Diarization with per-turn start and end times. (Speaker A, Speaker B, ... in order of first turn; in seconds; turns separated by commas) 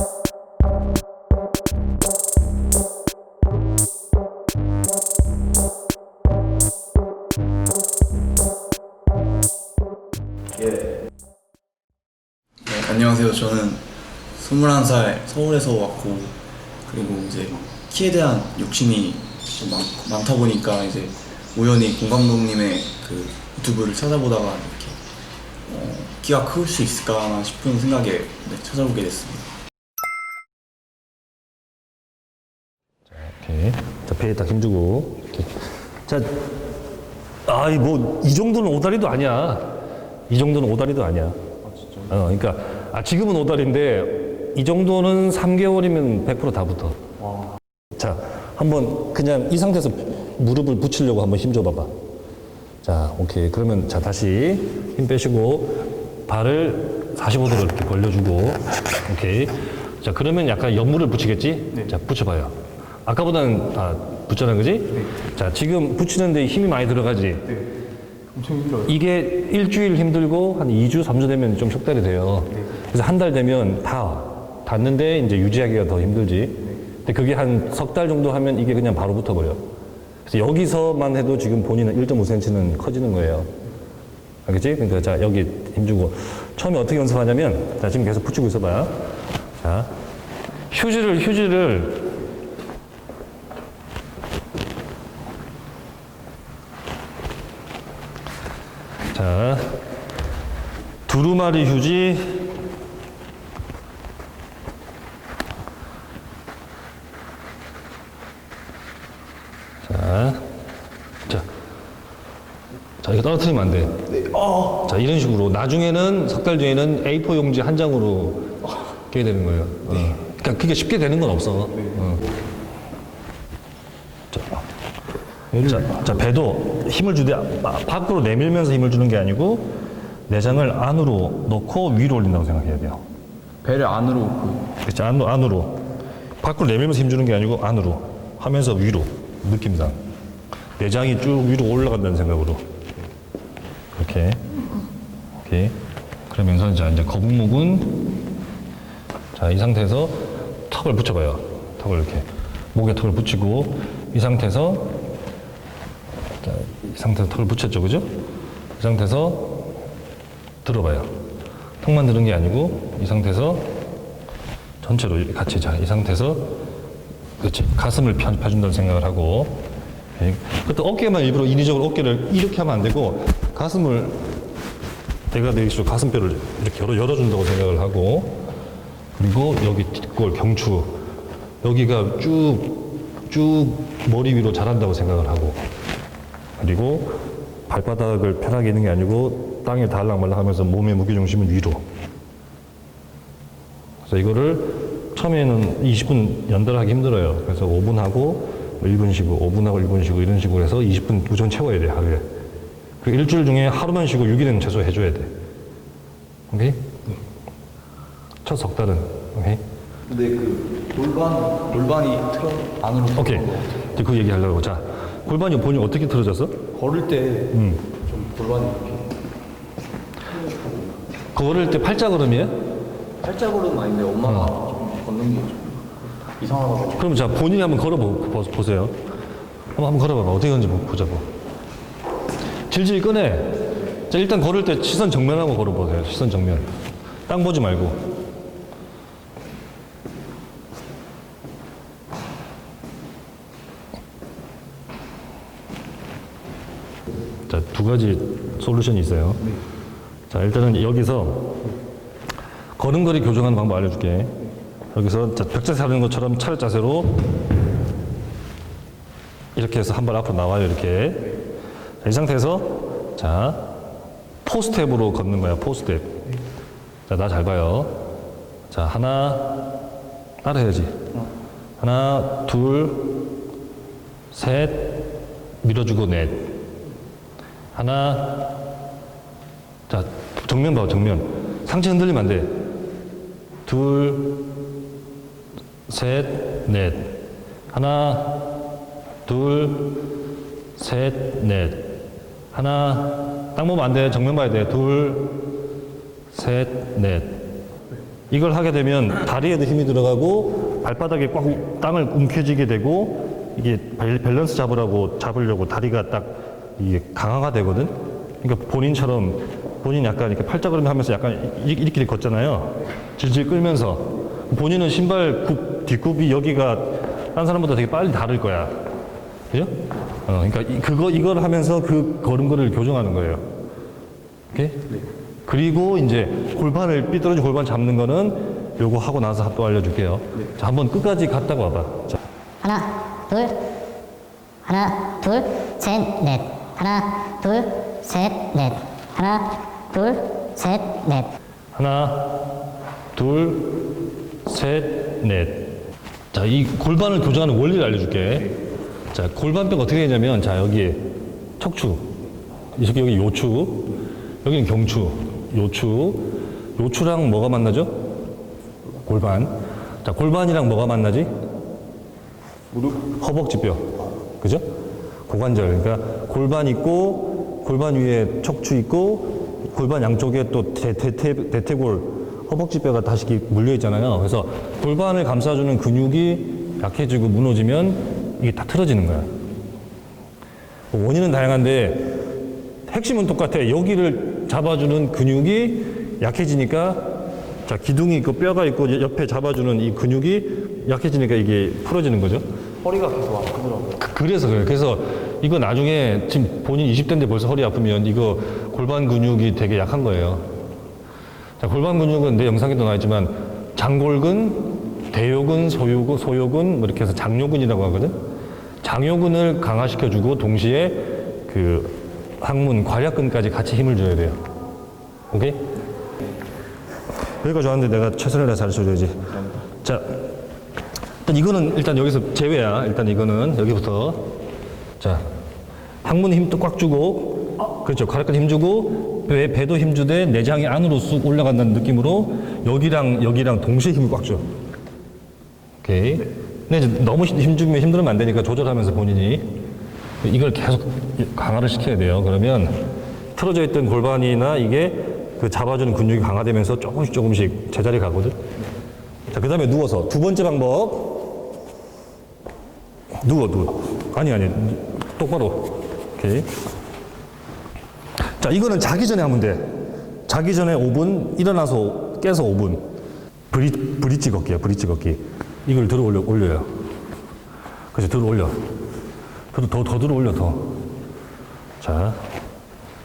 Speaker A: 10.6-10.9, Speaker A: 12.7-13.8, Speaker A: 14.3-16.4, Speaker A: 16.9-25.0, Speaker A: 25.7-29.5, Speaker B: 33.1-36.4, Speaker B: 37.5-39.7, Speaker B: 40.3-41.4, Speaker A: 41.7-42.0, Speaker B: 42.0-47.0, Speaker B: 48.0-51.9, Speaker B: 52.8-67.5, Speaker A: 68.3-68.9, Speaker B: 68.8-79.6, Speaker B: 80.2-83.5, Speaker B: 84.5-88.9, Speaker B: 89.6-89.9, Speaker B: 90.7-92.1, Speaker B: 99.1-99.8, Speaker B: 101.1-102.5, Speaker B: 109.8-110.4, Speaker B: 113.0-114.0, Speaker A: 114.1-114.7, Speaker B: 114.7-118.5, Speaker B: 119.0-122.3, Speaker B: 124.3-124.6, Speaker A: 125.5-126.1, Speaker B: 125.6-129.7, Speaker B: 130.3-133.0, Speaker A: 133.6-134.7, Speaker B: 134.8-135.8, Speaker B: 136.4-140.0, Speaker B: 140.8-142.6, Speaker B: 143.9-144.4, Speaker B: 145.4-145.7, Speaker B: 146.3-148.0, Speaker B: 149.3-154.9, Speaker B: 156.4-158.1, Speaker B: 158.8-159.7, Speaker B: 160.6-161.1, Speaker B: 161.8-163.7, Speaker B: 164.8-166.5, Speaker B: 167.4-169.6, Speaker B: 170.2-174.2, Speaker B: 175.3-178.4, Speaker B: 179.2-180.9, Speaker B: 181.6-185.6, Speaker B: 186.6-191.8, Speaker B: 194.1-202.2, Speaker B: 203.0-205.3, Speaker B: 206.5-207.2, Speaker B: 208.4-209.6, Speaker A: 210.1-213.9, Speaker B: 213.2-216.6, Speaker A: 216.7-219.1, Speaker B: 217.5-217.9, Speaker A: 220.3-221.0, Speaker B: 221.3-222.6, Speaker A: 223.2-227.1, Speaker B: 224.2-224.6, Speaker B: 226.9-228.9, Speaker B: 229.8-231.3, Speaker B: 232.7-236.7, Speaker B: 237.3-238.0, Speaker B: 247.5-249.4, Speaker B: 250.3-251.6, Speaker B: 252.8-254.3, Speaker B: 254.9-257.1, Speaker B: 259.5-261.3, Speaker B: 262.0-263.7, Speaker B: 264.4-266.2, Speaker B: 267.1-268.0, Speaker B: 268.7-269.7, Speaker B: 270.4-271.0, Speaker B: 271.8-273.2, Speaker B: 274.3-276.5, Speaker B: 277.7-278.5, Speaker B: 279.9-282.5, Speaker B: 283.6-284.5, Speaker B: 285.9-288.5, Speaker B: 289.2-290.0, Speaker B: 290.8-292.0, Speaker B: 292.5-295.4, Speaker B: 296.3-297.4, Speaker B: 298.3-318.7, Speaker B: 320.2-323.4, Speaker B: 324.5-332.2, Speaker C: 332.6-333.6, Speaker C: 334.6-341.3, Speaker B: 341.7-342.4, Speaker B: 343.1-343.8, Speaker B: 344.4-345.7, Speaker B: 346.3-348.5, Speaker B: 349.1-351.0, Speaker B: 351.6-352.1, Speaker B: 352.7-353.9, Speaker B: 354.4-357.9, Speaker B: 359.0-359.5, Speaker B: 360.0-361.3, Speaker B: 362.9-364.6, Speaker B: 365.3-379.3, Speaker B: 380.9-382.1, Speaker B: 382.9-387.0, Speaker B: 387.6-392.4, Speaker A: 392.8-394.0, Speaker B: 394.0-400.4, Speaker B: 401.6-408.1, Speaker B: 408.8-414.4, Speaker B: 415.3-415.7, Speaker B: 417.4-420.3, Speaker B: 421.2-424.2, Speaker B: 426.0-434.4, Speaker B: 435.8-439.4, Speaker B: 440.2-442.7, Speaker B: 443.4-448.4, Speaker B: 449.3-451.3, Speaker B: 453.2-456.5, Speaker B: 458.2-459.7, Speaker B: 460.3-462.8, Speaker B: 463.5-466.7, Speaker B: 467.9-468.6, Speaker B: 469.5-470.6, Speaker B: 471.8-472.2